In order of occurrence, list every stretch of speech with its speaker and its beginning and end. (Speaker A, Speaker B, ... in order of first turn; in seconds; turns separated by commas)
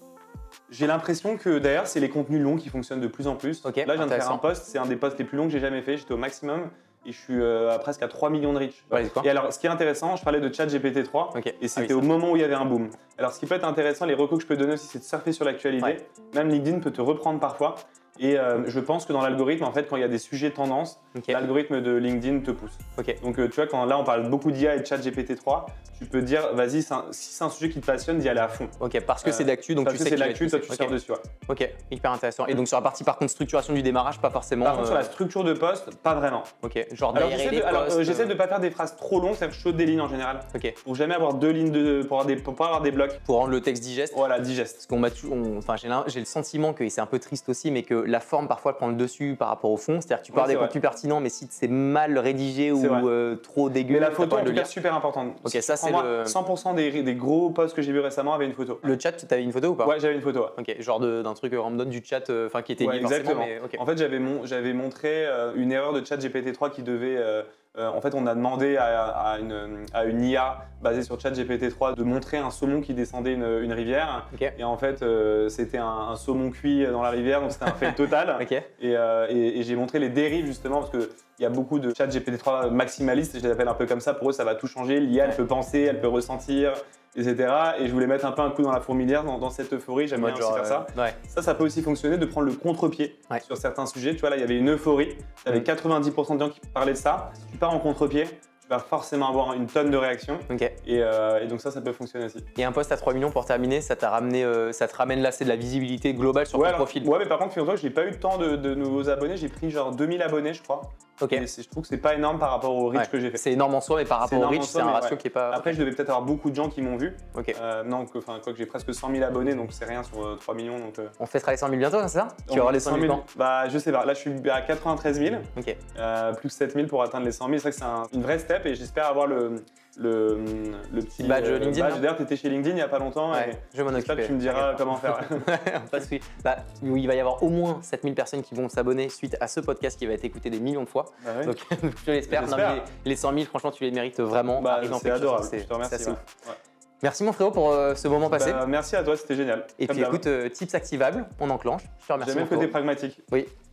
Speaker A: 0.7-31.3, Speaker B: 3.6-4.4, Speaker B: 8.9-9.3, Speaker B: 11.3-12.1, Speaker B: 21.1-21.4, Speaker B: 28.8-31.0, Speaker B: 31.5-35.1, Speaker A: 34.6-36.5, Speaker B: 36.6-38.3, Speaker A: 37.1-43.2, Speaker B: 43.3-44.2, Speaker A: 44.1-44.8, Speaker B: 44.8-54.7, Speaker A: 50.3-50.8, Speaker A: 52.8-53.1, Speaker A: 53.9-58.9, Speaker B: 55.4-56.4, Speaker B: 58.8-59.9, Speaker A: 59.8-60.6, Speaker B: 60.6-63.8, Speaker A: 62.8-102.5, Speaker B: 77.7-78.7, Speaker B: 90.1-91.2, Speaker B: 100.5-100.7, Speaker B: 102.6-107.1, Speaker A: 106.5-113.4, Speaker B: 111.2-111.5, Speaker B: 113.0-115.8, Speaker A: 114.2-121.1, Speaker B: 121.2-123.2, Speaker A: 122.5-135.5, Speaker B: 131.2-132.1, Speaker B: 133.3-146.2, Speaker A: 141.2-141.6, Speaker A: 142.3-142.9, Speaker A: 144.6-146.6, Speaker B: 147.0-148.6, Speaker A: 148.3-150.3, Speaker B: 149.8-152.8, Speaker A: 152.2-153.3